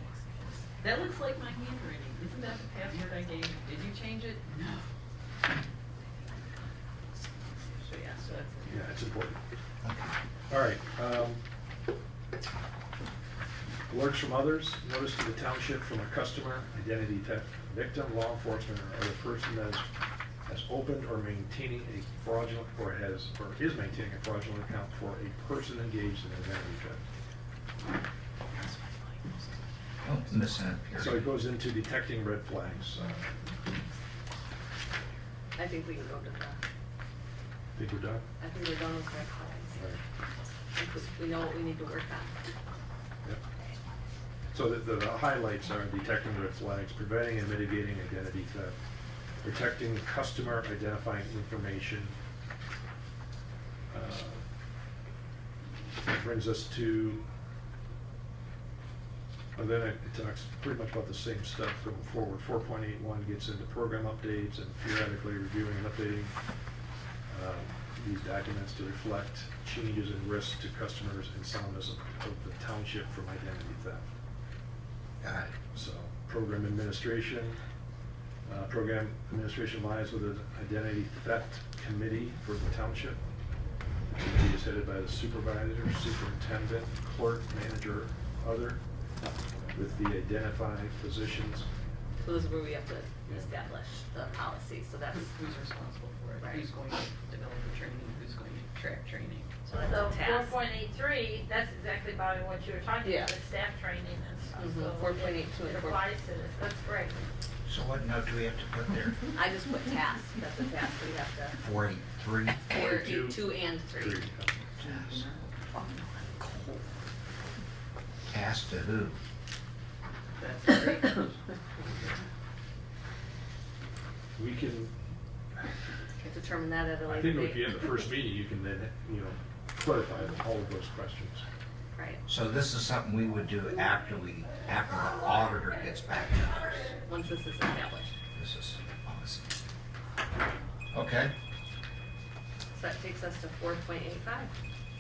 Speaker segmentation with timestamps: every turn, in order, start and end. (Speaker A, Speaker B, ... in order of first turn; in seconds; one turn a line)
Speaker A: 0.8-4.8
Speaker A: 7.8-8.7
Speaker B: 8.7-9.4
Speaker C: 9.8-10.1
Speaker B: 10.5-11.4
Speaker B: 13.9-19.9
Speaker B: 20.4-27.0
Speaker A: 28.6-29.3
Speaker C: 30.0-31.3
Speaker B: 30.9-33.4
Speaker D: 35.6-36.6
Speaker B: 37.7-38.2
Speaker D: 38.4-39.8
Speaker B: 39.7-40.0
Speaker D: 40.7-42.4
Speaker B: 44.5-48.8
Speaker B: 49.4-52.1
Speaker B: 53.9-54.4
Speaker B: 56.0-57.2
Speaker B: 59.5-66.3
Speaker B: 67.3-74.0
Speaker C: 75.2-75.5
Speaker B: 75.7-77.6
Speaker B: 78.4-83.2
Speaker B: 84.2-88.8
Speaker B: 89.7-91.7
Speaker D: 92.2-95.3
Speaker A: 95.1-99.6
Speaker D: 96.4-96.7
Speaker D: 99.7-100.5
Speaker E: 99.8-107.2
Speaker D: 103.0-103.3
Speaker D: 104.5-106.1
Speaker C: 107.6-109.2
Speaker D: 109.3-111.6
Speaker C: 111.6-112.7
Speaker D: 112.7-114.2
Speaker B: 112.7-114.7
Speaker C: 114.8-115.2
Speaker A: 114.8-115.4
Speaker D: 115.7-116.8
Speaker C: 118.3-119.2
Speaker A: 120.3-121.5
Speaker B: 124.3-124.9
Speaker D: 126.2-128.0
Speaker B: 127.0-131.4
Speaker D: 131.9-132.2
Speaker C: 132.3-137.0
Speaker D: 137.1-138.1
Speaker C: 138.3-139.5
Speaker C: 140.9-141.3
Speaker D: 142.7-144.5